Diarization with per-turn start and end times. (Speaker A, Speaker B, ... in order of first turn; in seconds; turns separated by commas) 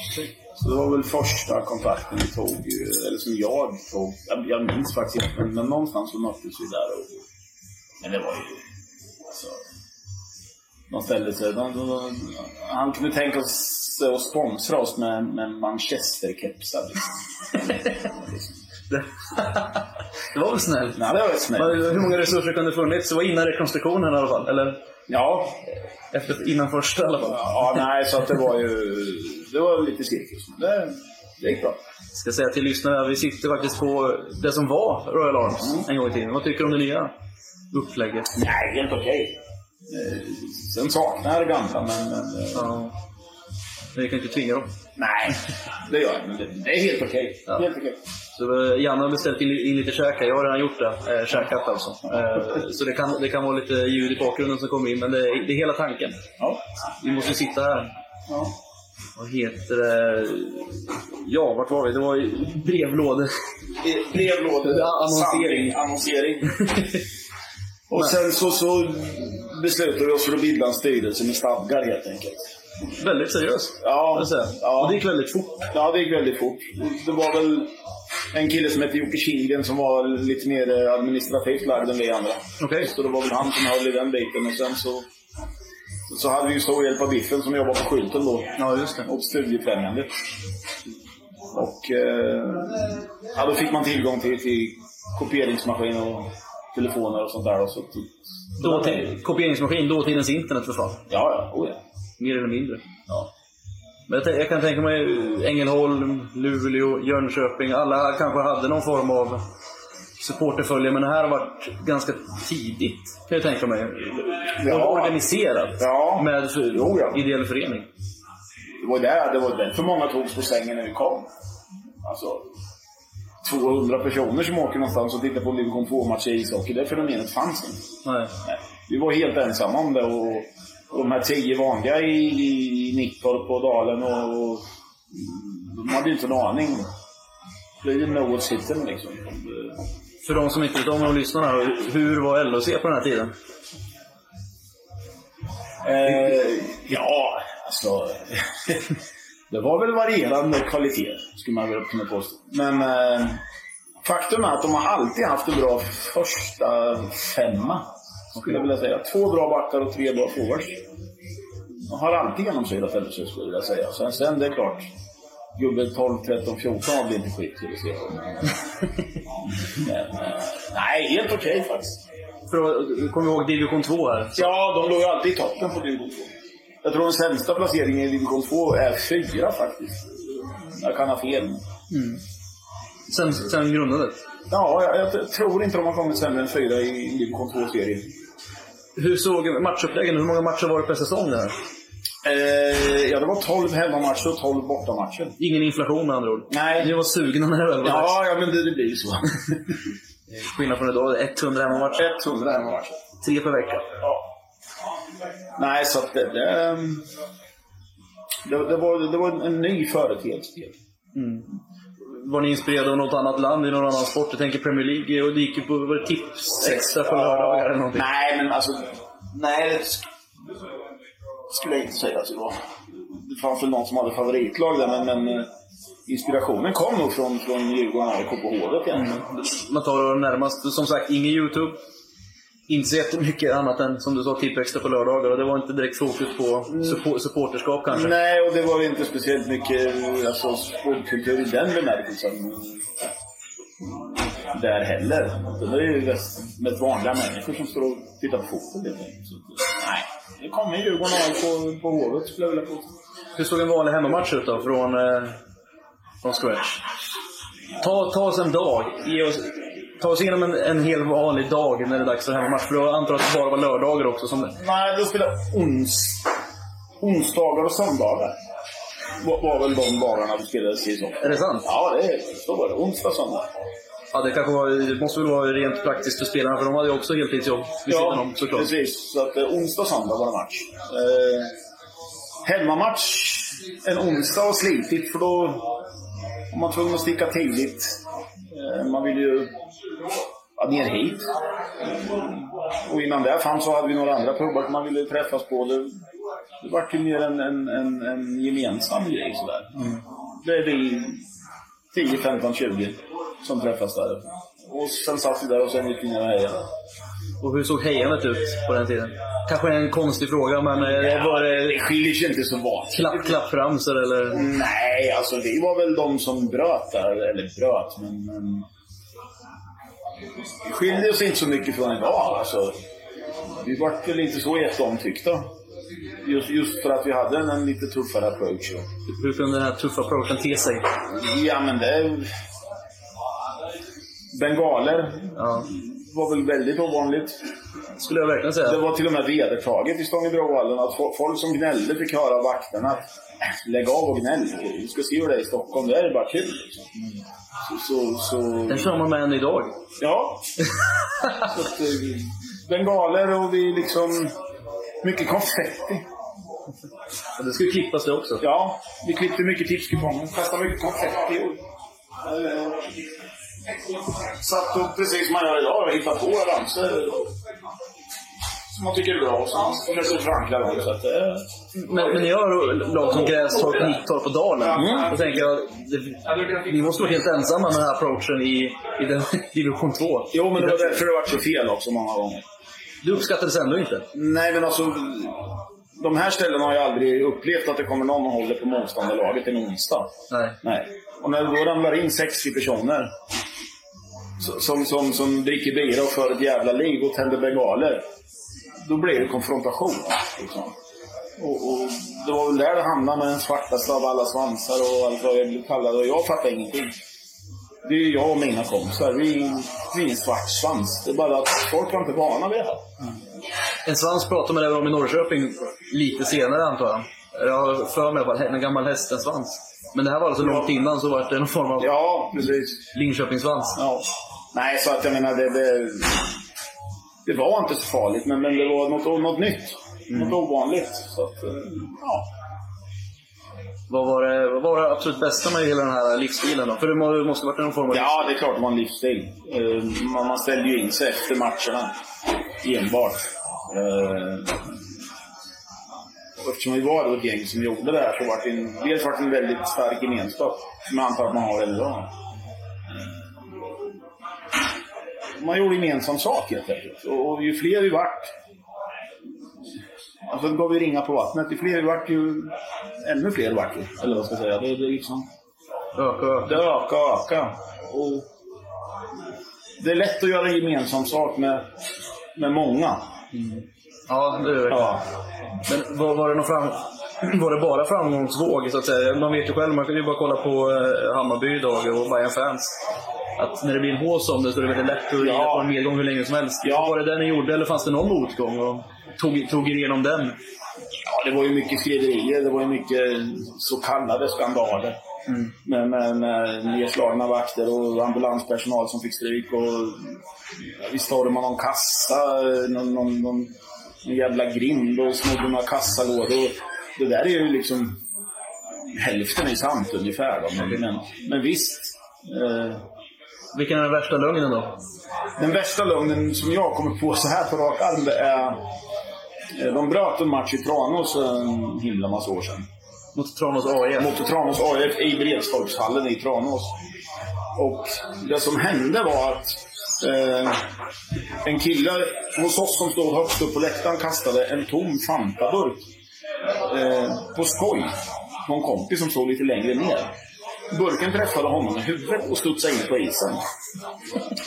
Speaker A: 0.5-7.2, Speaker A: 8.0-8.6, Speaker A: 9.3-9.6, Speaker A: 10.9-17.1, Speaker A: 17.6-18.5, Speaker B: 18.9-24.8, Speaker A: 21.0-22.1, Speaker A: 25.1-25.6, Speaker B: 26.1-27.9, Speaker A: 27.3-31.8, Speaker B: 32.1-37.1, Speaker A: 35.6-35.9, Speaker B: 37.7-38.3, Speaker A: 38.4-39.4, Speaker A: 39.9-42.8, Speaker B: 42.5-42.9, Speaker B: 43.9-44.8, Speaker A: 45.0-48.0, Speaker B: 48.4-56.3, Speaker B: 57.0-57.9, Speaker B: 59.2-63.3, Speaker A: 63.8-66.6, Speaker B: 64.6-65.8, Speaker B: 66.5-67.0, Speaker A: 67.9-72.5, Speaker B: 73.0-75.7, Speaker A: 73.8-75.0, Speaker A: 75.7-77.7, Speaker A: 78.3-85.1, Speaker B: 82.6-82.9, Speaker A: 86.1-88.5, Speaker B: 88.6-89.1, Speaker A: 89.1-90.1, Speaker A: 91.5-99.1, Speaker B: 98.6-101.0, Speaker A: 101.1-101.8, Speaker B: 102.2-102.9, Speaker B: 104.1-109.4, Speaker B: 110.2-114.1, Speaker A: 114.0-115.2, Speaker B: 114.6-117.9, Speaker A: 115.8-117.2, Speaker A: 118.8-121.3, Speaker A: 122.0-122.5, Speaker A: 123.4-127.8, Speaker B: 128.1-128.3, Speaker A: 128.4-136.9, Speaker A: 137.8-139.8, Speaker B: 140.2-143.3, Speaker A: 145.8-149.0, Speaker B: 146.1-146.3, Speaker A: 149.5-153.4, Speaker A: 154.0-160.8, Speaker A: 161.9-164.9, Speaker A: 165.6-168.5, Speaker A: 169.8-172.0, Speaker B: 172.5-174.5, Speaker A: 174.4-176.3, Speaker A: 176.8-181.6, Speaker B: 181.9-182.2, Speaker B: 183.1-184.2, Speaker A: 184.5-188.1, Speaker B: 189.0-191.6, Speaker A: 192.2-195.4, Speaker B: 195.4-198.2, Speaker A: 196.5-196.9, Speaker A: 197.8-199.6, Speaker B: 200.3-202.1, Speaker A: 202.0-203.0, Speaker B: 203.2-203.9, Speaker A: 205.6-207.1, Speaker A: 208.5-210.8, Speaker B: 211.1-211.5, Speaker B: 212.1-218.1, Speaker A: 216.6-220.1, Speaker A: 221.5-222.6, Speaker A: 223.2-225.5, Speaker A: 226.1-229.2, Speaker B: 228.9-231.8, Speaker B: 232.7-238.1, Speaker A: 236.7-237.0, Speaker A: 237.9-242.8, Speaker A: 244.5-252.9, Speaker B: 253.4-255.4, Speaker B: 256.2-256.8, Speaker B: 257.8-264.5, Speaker A: 264.6-266.3, Speaker A: 267.0-268.4, Speaker A: 269.2-273.5, Speaker B: 271.2-271.7, Speaker B: 274.1-278.7, Speaker A: 277.9-281.5, Speaker A: 282.4-285.7, Speaker A: 286.5-288.0, Speaker A: 288.5-289.5, Speaker A: 290.6-291.3, Speaker A: 291.8-295.9, Speaker A: 296.6-299.9, Speaker A: 300.4-301.2, Speaker A: 301.9-306.6, Speaker B: 307.4-311.9, Speaker A: 310.8-313.4, Speaker B: 312.9-314.4, Speaker A: 314.3-318.7, Speaker A: 320.6-322.8, Speaker A: 323.6-325.5, Speaker A: 326.2-328.9, Speaker B: 329.1-330.8, Speaker A: 331.0-332.3, Speaker A: 334.3-337.4, Speaker B: 335.4-335.7, Speaker B: 338.0-338.8, Speaker A: 338.6-346.9, Speaker A: 347.6-348.9, Speaker B: 348.7-349.8, Speaker A: 350.0-350.4, Speaker A: 351.5-354.3, Speaker A: 355.0-356.1, Speaker B: 357.4-358.4, Speaker A: 358.4-361.6, Speaker A: 362.2-362.9, Speaker A: 364.3-367.3, Speaker A: 368.7-372.2, Speaker B: 371.8-381.0, Speaker A: 373.2-374.0, Speaker A: 374.7-375.2, Speaker A: 380.3-382.4, Speaker B: 383.0-384.1, Speaker A: 384.1-390.1, Speaker B: 390.3-390.6, Speaker A: 390.6-393.1, Speaker A: 394.4-398.1, Speaker A: 398.9-400.7, Speaker A: 401.4-407.0, Speaker A: 407.9-412.9, Speaker B: 413.9-421.9, Speaker A: 420.4-420.7, Speaker A: 421.8-422.8, Speaker B: 422.9-423.8, Speaker A: 423.8-426.3, Speaker A: 427.3-432.3, Speaker B: 433.9-438.3, Speaker A: 437.9-441.9, Speaker A: 442.6-444.7, Speaker A: 446.4-452.1, Speaker A: 455.4-458.3, Speaker A: 460.3-462.5, Speaker A: 463.0-465.3, Speaker B: 466.0-466.6, Speaker A: 466.5-468.2, Speaker A: 469.8-471.7, Speaker A: 472.4-473.1, Speaker B: 473.3-475.0, Speaker A: 474.7-475.0, Speaker B: 475.7-482.7, Speaker B: 483.4-490.4, Speaker A: 485.2-485.7, Speaker A: 486.6-487.0, Speaker A: 491.1-495.0, Speaker A: 495.6-500.2, Speaker A: 500.8-503.5, Speaker A: 504.0-508.0, Speaker A: 509.0-512.8, Speaker B: 513.5-514.8, Speaker A: 515.4-518.6, Speaker A: 519.6-522.7, Speaker B: 523.1-524.1, Speaker A: 524.0-526.7, Speaker A: 527.6-530.6, Speaker A: 531.5-535.9, Speaker A: 536.7-540.1, Speaker A: 540.7-543.4